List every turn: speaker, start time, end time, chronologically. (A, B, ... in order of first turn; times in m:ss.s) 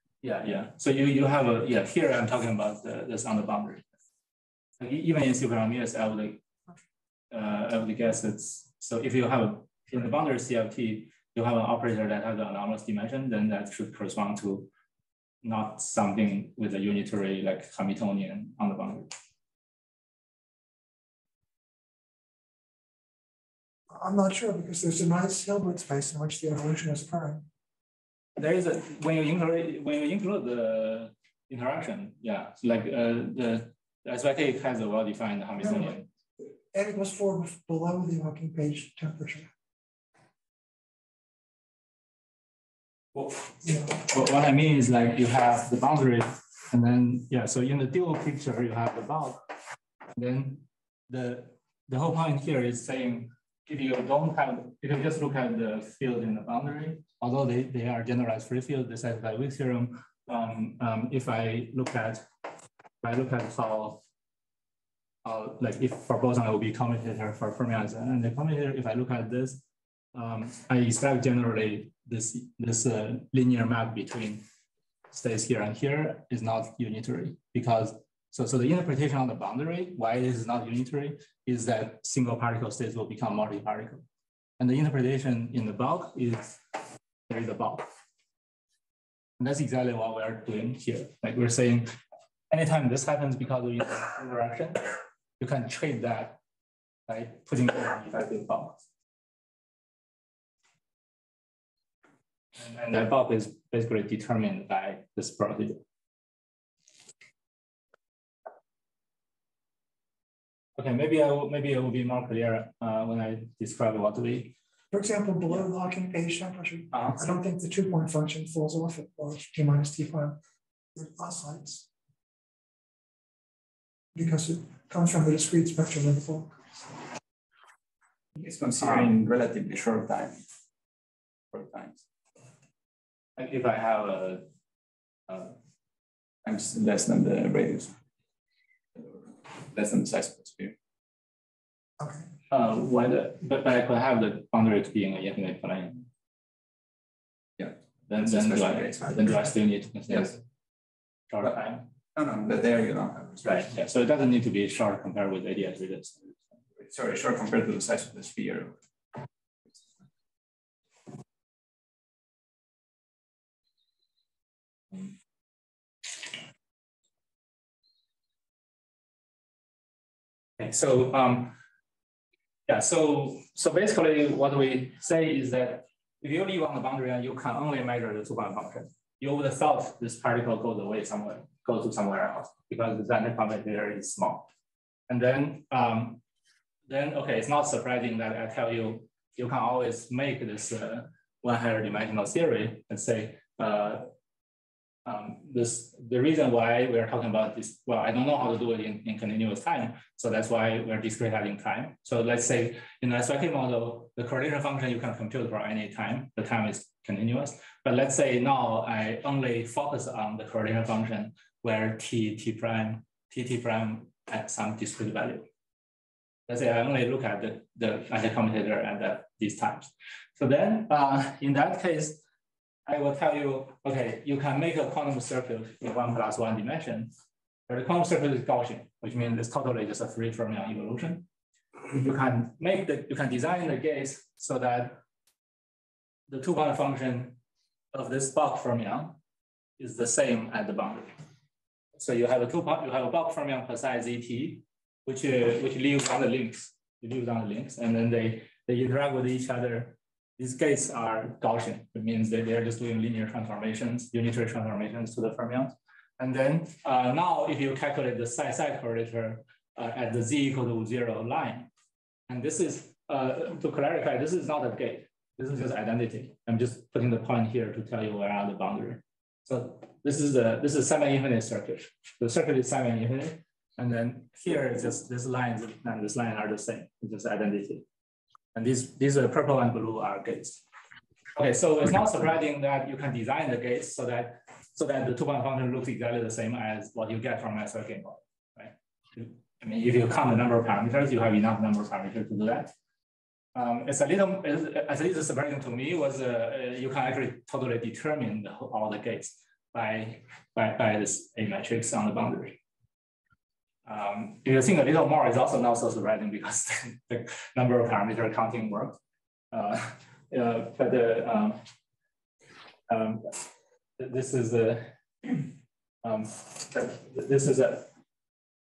0:00.2-0:03.8 A
0:04.8-0:06.4 A
0:07.3-0:14.7 A
0:15.4-0:19.1 A
0:23.9-0:27.5 B
0:28.4-0:36.1 A
0:35.6-0:39.5 B
0:43.1-0:49.5 A
0:50.2-1:02.2 A
1:03.0-1:04.0 A
1:05.2-1:09.6 A
1:10.1-1:14.4 A
1:15.1-1:24.0 A
1:24.6-1:26.8 A
1:27.3-1:27.9 A
1:29.4-1:32.0 A
1:32.5-1:34.8 A
1:35.4-1:36.4 A
1:37.1-1:38.8 A
1:42.6-1:45.8 A
1:50.8-1:54.5 A
1:54.9-2:00.4 B
1:56.9-1:57.2 A
2:01.0-2:01.9 B
2:04.1-2:06.6 B
2:08.4-2:10.4 C
2:11.5-2:12.0 C
2:13.4-2:14.4 A
2:15.3-2:15.6 A
2:16.4-2:17.9 C
2:19.0-2:20.8 C
2:22.0-2:22.3 B
2:22.5-2:26.1 A
2:27.6-2:29.4 C
2:28.1-2:30.4 A
2:31.3-2:31.9 A
2:32.2-2:33.7 C
2:33.4-2:36.3 A
2:36.8-2:38.8 C
2:50.6-2:51.6 A
2:52.7-3:04.5 A
3:05.1-3:06.2 A
3:06.9-3:14.1 A
3:15.0-3:35.5 A
3:36.5-3:42.2 A
3:42.9-3:47.1 A
3:47.7-3:51.2 A
3:52.0-3:55.0 A
3:56.3-3:57.4 A
3:57.9-3:59.2 A
3:59.8-4:01.1 A
4:02.0-4:21.7 A
4:22.3-4:37.8 A
4:38.6-4:40.6 A
4:41.4-4:52.7 A
4:53.6-5:02.6 A
5:03.9-5:09.0 A
5:09.5-5:11.6 A
5:12.9-5:15.5 A
5:16.0-5:17.9 A